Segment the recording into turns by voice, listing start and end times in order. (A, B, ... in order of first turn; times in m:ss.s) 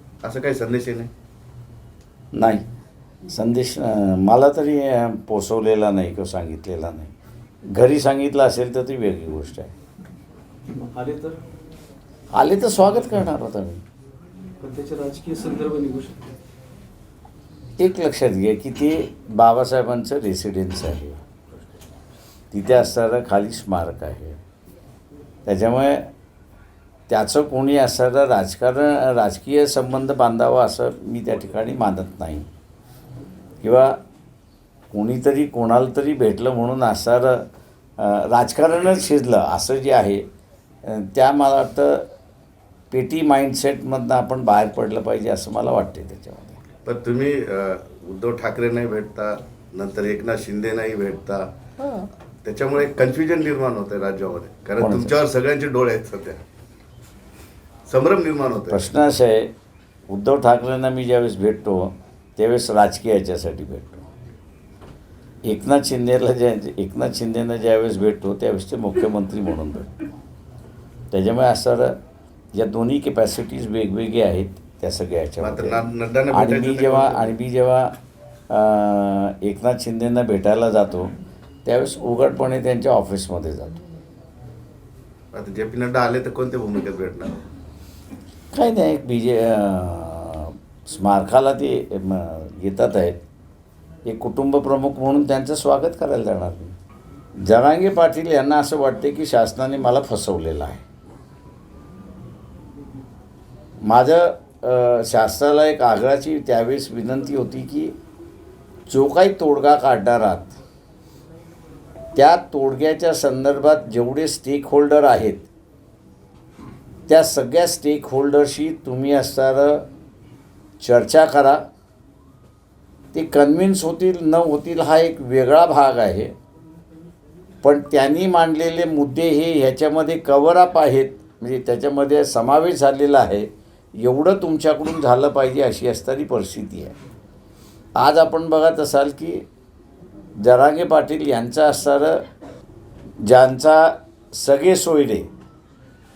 0:00.2-0:01.1 A
0:02.3-0:02.6 B
0:03.3-0:07.1 B
0:07.7-0:09.7 B
0:10.7-0:11.4 C
0:12.3-0:13.8 B
0:14.6-0:16.3 C
0:17.8-0:21.2 B
0:22.5-0:24.4 B
0:25.5-0:26.1 B
0:27.1-0:32.5 B
0:33.6-0:34.0 B
0:34.9-0:37.4 B
0:38.0-0:40.2 B
0:40.8-0:42.1 B
0:42.9-0:46.6 B
0:46.9-0:51.4 A
0:52.4-0:56.4 A
0:54.8-0:55.2 B
0:57.9-0:58.8 A
0:58.7-0:59.5 B
1:00.1-1:04.1 B
1:05.4-1:09.9 B
1:11.1-1:12.0 B
1:12.5-1:18.0 B
1:15.4-1:17.3 A
1:18.5-1:21.1 B
1:21.6-1:23.8 B
1:25.3-1:27.5 A
1:28.5-1:33.2 B
1:34.0-1:36.8 B
1:37.4-1:40.8 B
1:43.8-1:47.9 B
1:48.9-1:50.6 B
1:52.2-1:55.5 B
1:57.1-1:59.9 B
2:00.8-2:01.6 B
2:03.1-2:06.3 B
2:07.6-2:17.0 B
2:18.0-2:19.4 B
2:20.4-2:22.3 B
2:23.2-2:25.3 B